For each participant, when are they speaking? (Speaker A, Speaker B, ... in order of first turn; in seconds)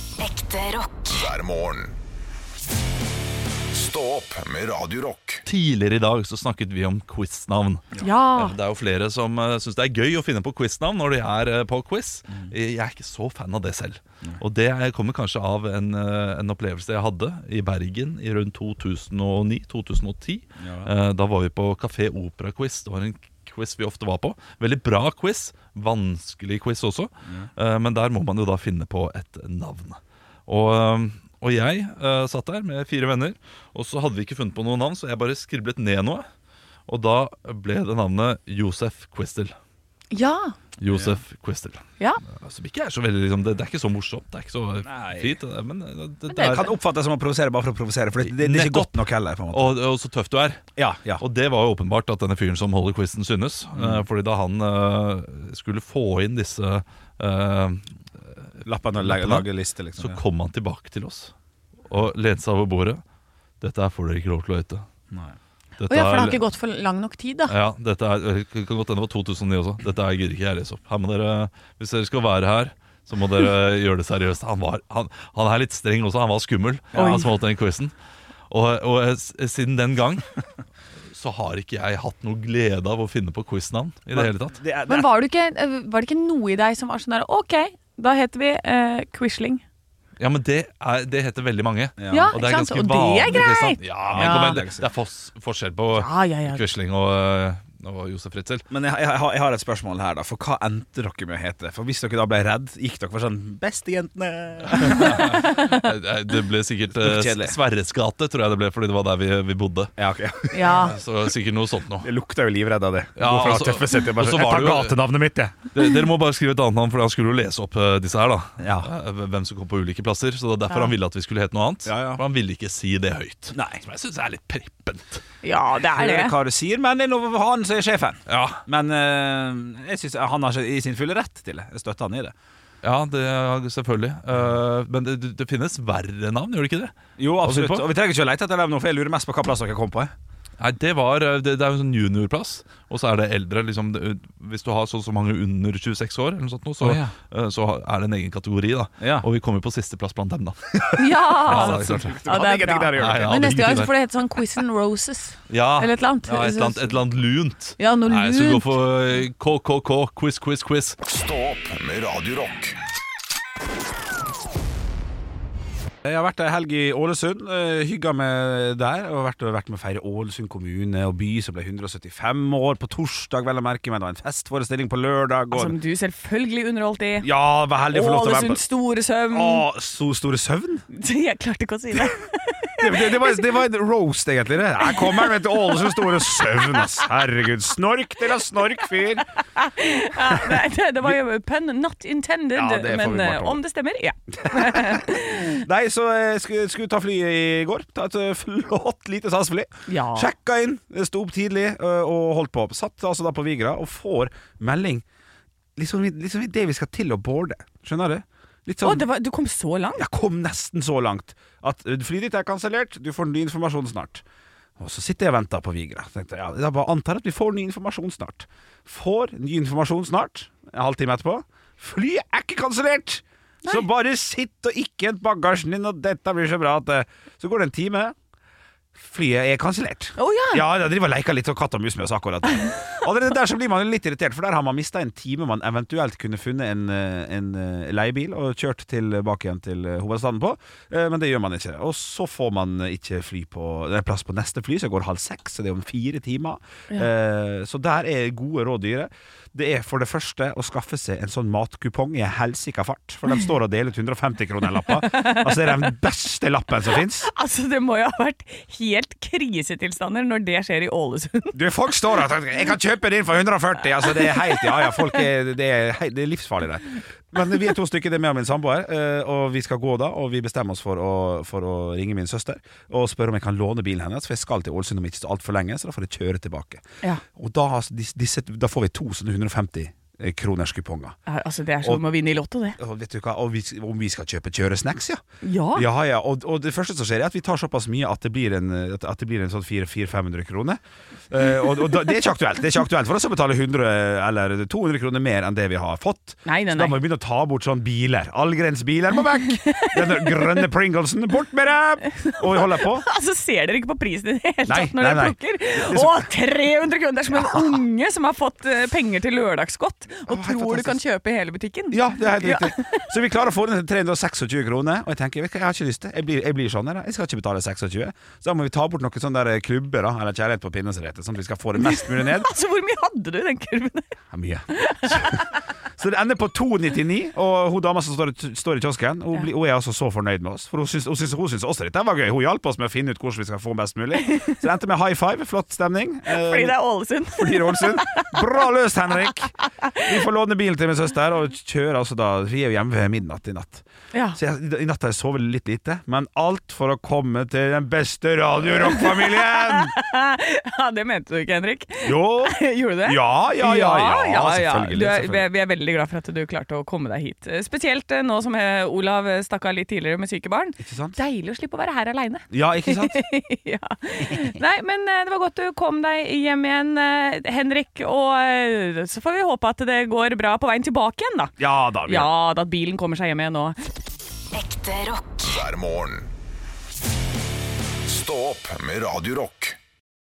Speaker A: 0.2-1.1, 374.5-375.5
Speaker B: 1.1-1.9, 3.7-5.4, 161.0-162.8, 375.5-376.3, 378.1-379.8
Speaker C: 5.5-36.3, 36.9-39.5, 40.8-46.7, 48.2-50.7, 51.2-57.9, 59.0-61.3, 61.9-63.0, 63.6-64.8, 65.8-66.4, 67.5-77.9, 78.5-80.3, 81.1-84.6, 90.2-98.6, 104.6-110.0, 110.7-112.1, 113.2-115.0, 115.7-125.2, 128.3-128.6, 132.8-137.8, 140.6-152.2, 152.9-153.9, 155.5-161.0
Speaker D: 8.0-8.6, 40.1-40.5, 46.3-46.7, 65.9-67.5, 76.9-77.3, 84.9-89.6, 92.1-94.6, 95.9-96.6, 105.2-105.8, 110.5-111.0, 125.4-126.3, 151.0-156.8, 157.8-158.7, 175.5-177.3, 177.9-179.7, 180.9-183.4, 184.8-186.8, 189.5-195.6, 199.9-200.3, 208.8-210.1, 230.2-230.6, 254.9-255.8, 257.2-261.6, 264.0-265.2, 281.3-282.8, 285.4-285.9, 296.4-297.0, 299.6-300.7, 302.1-313.1, 321.8-324.1, 324.7-325.4, 334.2-334.6, 336.3-338.5, 344.1-344.4, 348.7-373.8
Speaker E: 20.6-20.9, 40.9-41.2, 44.8-45.4, 46.4-49.7, 50.8-51.2, 53.7-54.0, 58.6-60.2, 65.1-65.3, 76.9-77.3, 84.1-85.1, 92.0-92.3, 94.0-94.8, 98.7-105.4, 107.0-107.5, 110.0-110.9, 112.0-115.6, 118.6-118.9, 121.8-122.2, 123.5-123.8, 125.9-132.3, 137.2-140.1, 146.8-147.1, 149.0-149.2, 150.8-153.4, 166.0-175.7, 177.2-178.6, 179.3-180.8, 182.8-189.2, 190.3-191.1, 192.5-193.6, 194.4-205.0, 205.8-209.0, 209.9-214.2, 214.8-228.1, 228.9-257.3, 261.5-281.2, 282.8-285.2, 285.7-303.0, 304.7-306.3, 307.3-307.7, 310.3-311.0, 311.9-322.5, 324.3-336.8, 337.3-349.9, 352.0-355.4, 360.8-361.2, 362.5-363.2, 364.2-364.6, 371.6-372.3